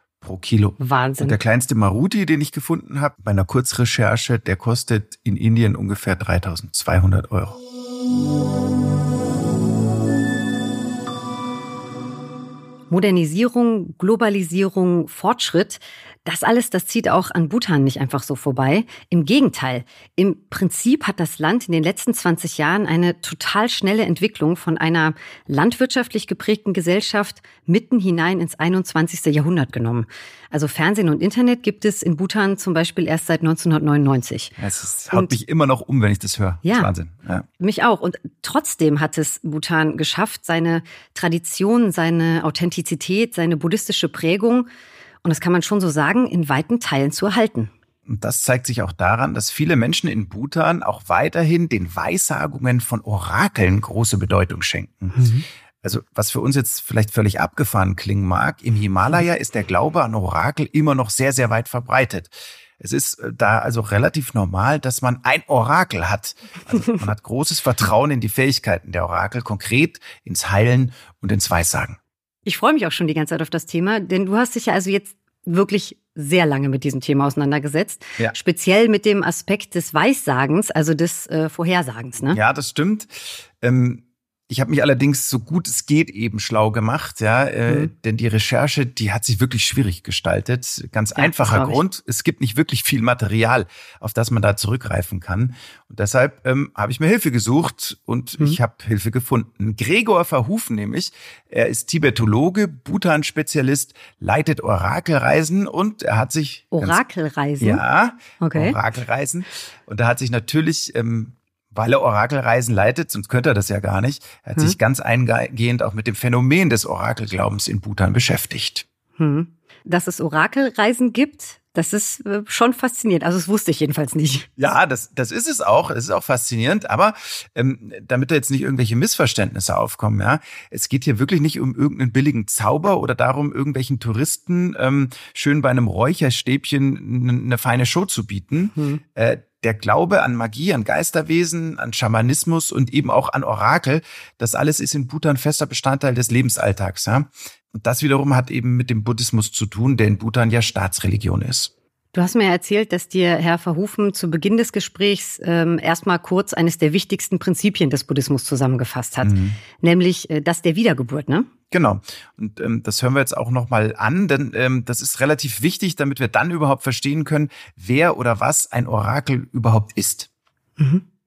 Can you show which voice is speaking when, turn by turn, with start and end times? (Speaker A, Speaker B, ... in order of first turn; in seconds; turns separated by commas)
Speaker A: 0.2-7.6, Speaker B: 0.8-1.4, Speaker B: 12.9-34.5, Speaker A: 34.6-37.4, Speaker B: 36.6-36.9, Speaker B: 37.6-44.7, Speaker B: 45.2-47.7, Speaker A: 48.1-55.3, Speaker B: 55.1-55.4, Speaker A: 55.8-72.0, Speaker B: 72.5-82.4, Speaker A: 82.3-107.0, Speaker B: 91.2-91.8, Speaker B: 106.7-107.8, Speaker A: 107.6-118.8, Speaker B: 108.4-108.8, Speaker B: 119.2-124.5, Speaker A: 124.6-151.7, Speaker B: 138.8-139.0, Speaker B: 152.1-161.5, Speaker A: 159.2-159.6, Speaker A: 161.7-170.3